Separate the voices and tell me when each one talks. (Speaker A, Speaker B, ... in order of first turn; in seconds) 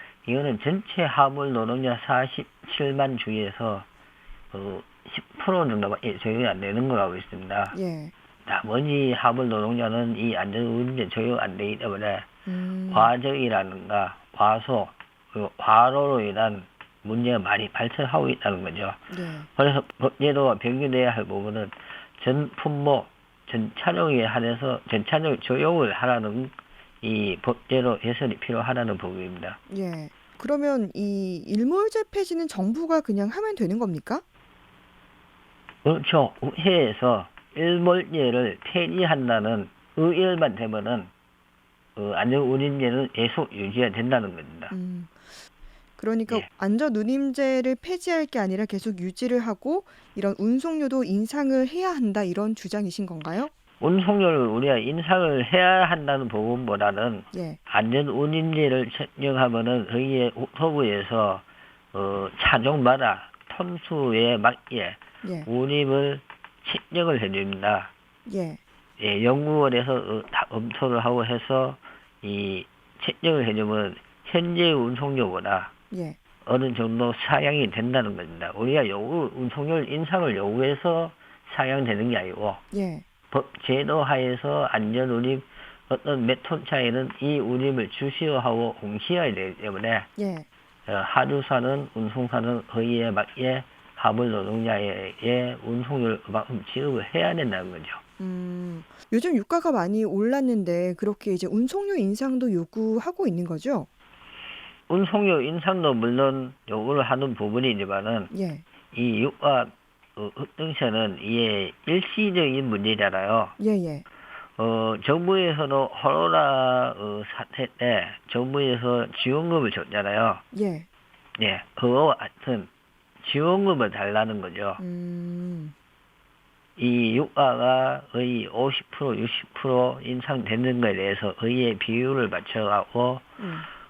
Speaker A: 0.2-3.8, 4.5-7.7, 8.4-12.2, 12.9-19.0, 19.6-29.6, 35.8-41.1, 42.0-44.7, 53.8-67.9, 69.0-75.7, 76.5-82.6, 83.3-90.1, 90.9-98.0, 104.9-108.3, 108.9-113.5, 114.6-120.4, 121.4-122.7, 123.2-124.8, 126.8-133.2
Speaker B: 7.7-8.1, 12.5-13.1, 19.1-19.5, 29.7-34.2, 44.7-45.1, 46.0-53.5, 57.3-57.6, 65.2-65.5, 68.3-68.6, 75.9-76.2, 82.7-83.0, 90.2-90.5, 98.2-103.9, 108.3-108.6, 113.6-114.0, 120.5-120.9, 124.8-125.7, 133.4-133.7